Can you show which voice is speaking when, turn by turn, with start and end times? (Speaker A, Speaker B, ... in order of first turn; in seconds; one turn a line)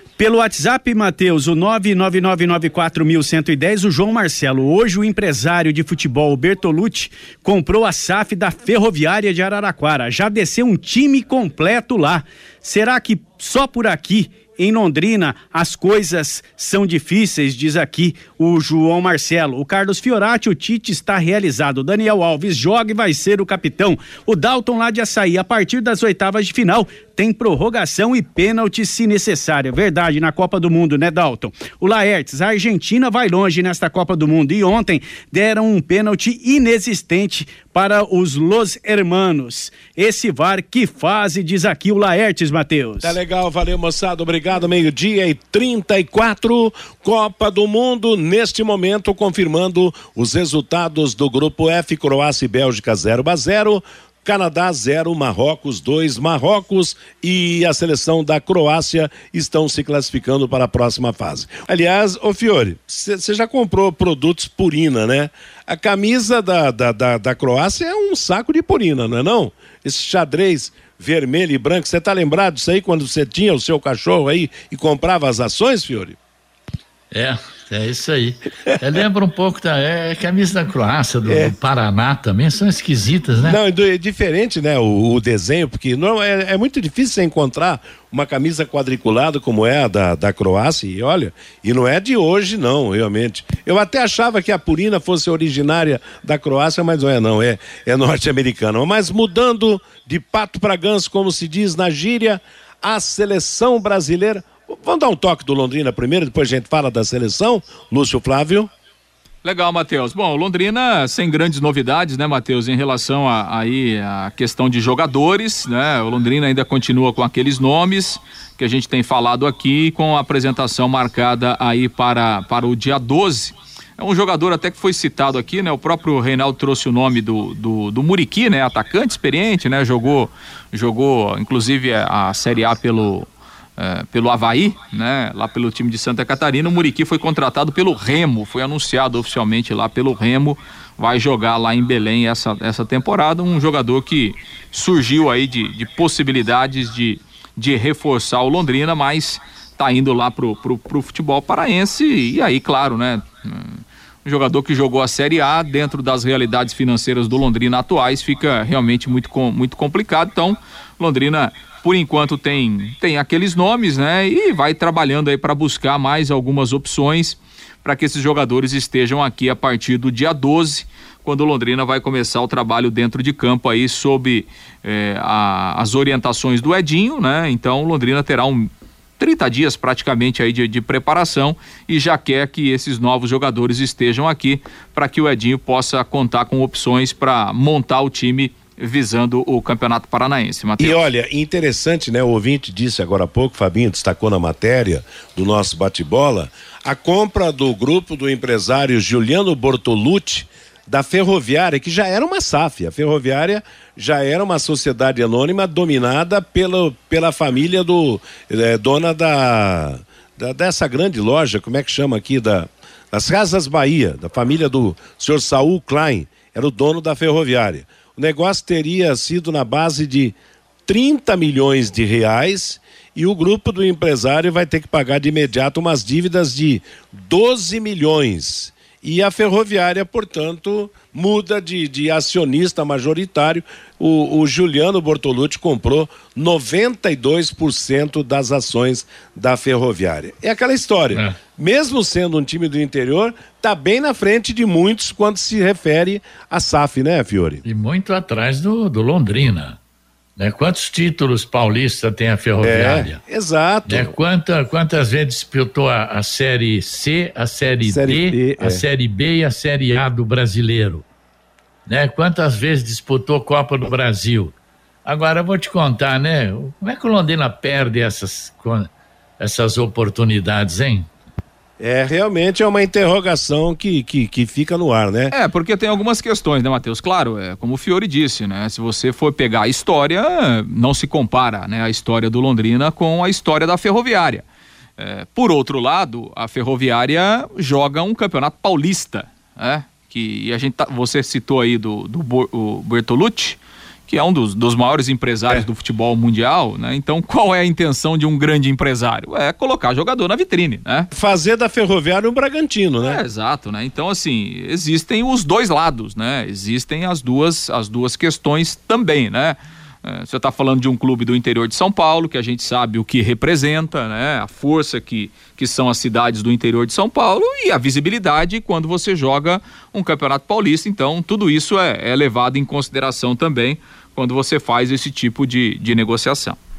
Speaker A: 0.2-43.1
Speaker B: 43.0-76.2
Speaker C: 77.1-83.6
Speaker B: 81.2-81.5
Speaker B: 83.4-108.7
Speaker D: 109.4-191.0
Speaker B: 190.8-220.3
Speaker B: 220.9-247.6
Speaker C: 247.6-249.8
Speaker C: 250.4-253.2
Speaker B: 252.6-254.1
Speaker C: 253.8-261.0
Speaker B: 257.8-258.8
Speaker C: 261.9-264.5
Speaker C: 265.0-271.1
Speaker B: 271.8-275.3
Speaker D: 275.3-284.4
Speaker D: 285.0-301.1
Speaker B: 301.1-303.2
Speaker D: 303.0-326.6